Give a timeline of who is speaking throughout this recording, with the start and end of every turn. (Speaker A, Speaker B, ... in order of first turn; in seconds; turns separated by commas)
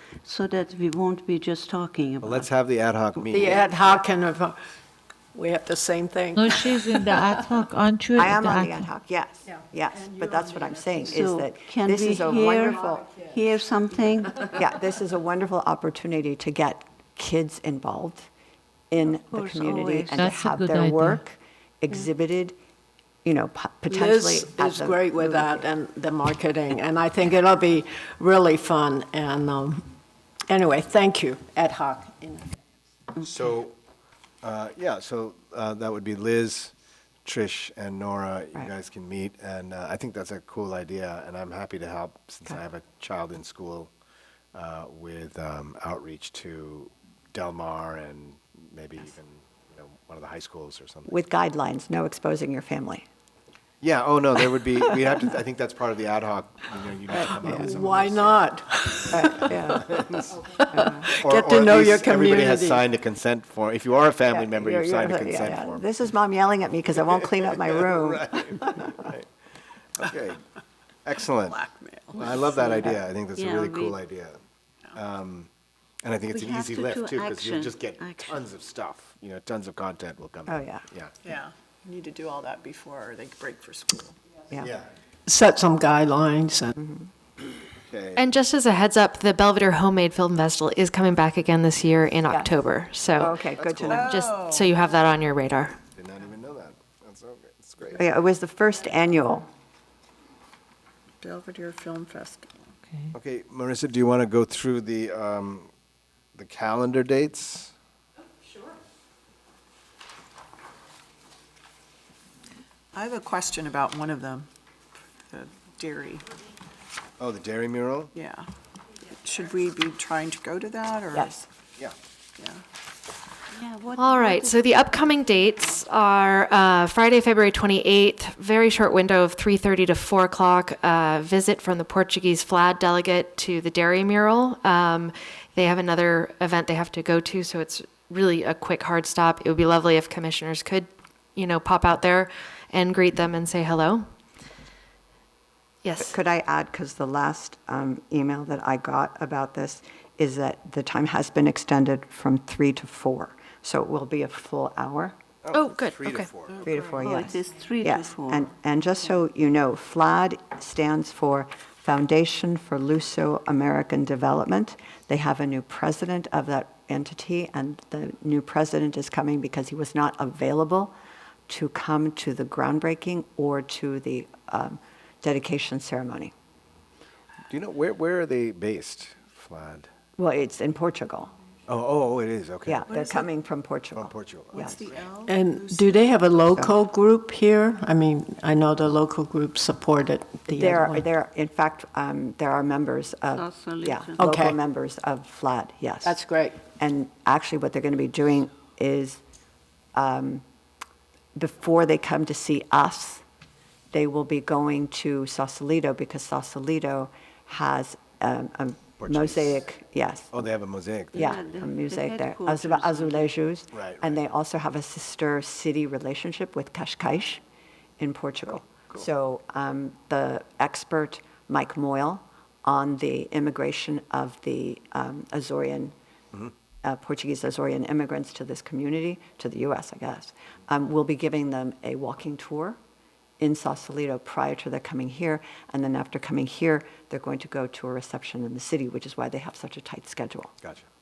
Speaker A: 0.2-2.5, Speaker B: 2.2-4.0, Speaker C: 3.3-4.6, Speaker C: 5.3-7.4, Speaker D: 6.4-8.8, Speaker E: 8.2-13.1, Speaker A: 11.0-14.6, Speaker E: 14.5-18.3, Speaker E: 18.9-22.6, Speaker A: 19.2-20.3, Speaker D: 20.2-21.2, Speaker E: 23.2-25.6, Speaker C: 23.9-29.9, Speaker C: 30.5-32.5, Speaker B: 33.2-33.8, Speaker B: 34.4-36.7, Speaker B: 37.2-43.9, Speaker B: 44.5-51.1, Speaker E: 51.1-53.1, Speaker B: 53.8-58.4, Speaker C: 57.4-59.4, Speaker E: 59.1-59.9, Speaker B: 59.1-60.4, Speaker E: 60.7-61.1, Speaker C: 60.8-62.8, Speaker B: 61.2-65.8, Speaker E: 64.3-68.8, Speaker B: 67.1-69.3, Speaker B: 70.0-70.4, Speaker B: 71.0-71.6, Speaker F: 71.5-72.6, Speaker B: 72.2-74.4, Speaker A: 72.3-74.0, Speaker B: 75.0-75.5, Speaker B: 76.0-81.1, Speaker A: 76.3-78.5, Speaker E: 80.5-80.8, Speaker F: 81.2-84.2, Speaker B: 84.6-84.9, Speaker C: 85.3-86.7, Speaker E: 86.8-87.1, Speaker B: 87.8-88.2, Speaker G: 88.2-93.4, Speaker E: 93.2-94.1, Speaker B: 93.3-94.1, Speaker G: 93.9-95.8, Speaker F: 93.9-94.7, Speaker B: 96.0-98.1, Speaker E: 98.0-99.5, Speaker F: 101.2-102.7, Speaker B: 103.1-105.7, Speaker B: 106.3-107.7, Speaker F: 112.9-114.5, Speaker F: 115.3-116.3, Speaker B: 117.2-118.1, Speaker F: 118.2-118.5, Speaker F: 119.2-121.3, Speaker E: 121.1-121.5, Speaker A: 123.5-125.0, Speaker G: 124.0-144.0, Speaker G: 145.8-146.2, Speaker E: 146.1-155.2, Speaker B: 155.4-156.6, Speaker G: 155.5-156.3, Speaker E: 156.6-170.9, Speaker A: 157.0-158.5, Speaker E: 171.5-176.3, Speaker B: 177.5-179.9, Speaker E: 180.2-181.3, Speaker B: 181.7-182.8, Speaker E: 182.7-184.8, Speaker F: 182.9-183.3, Speaker B: 184.0-184.7, Speaker F: 184.5-186.0, Speaker C: 185.2-191.1, Speaker E: 190.6-196.2, Speaker A: 193.3-194.2, Speaker C: 194.2-194.6, Speaker C: 196.0-196.6, Speaker E: 196.8-199.2, Speaker E: 199.9-200.4, Speaker E: 201.3-203.2, Speaker E: 203.9-210.4, Speaker B: 209.0-209.7, Speaker B: 210.3-211.4, Speaker A: 211.1-213.3, Speaker E: 211.2-217.4, Speaker B: 213.7-214.3, Speaker E: 218.0-225.9, Speaker B: 218.7-219.1, Speaker E: 226.8-232.8, Speaker E: 233.4-240.5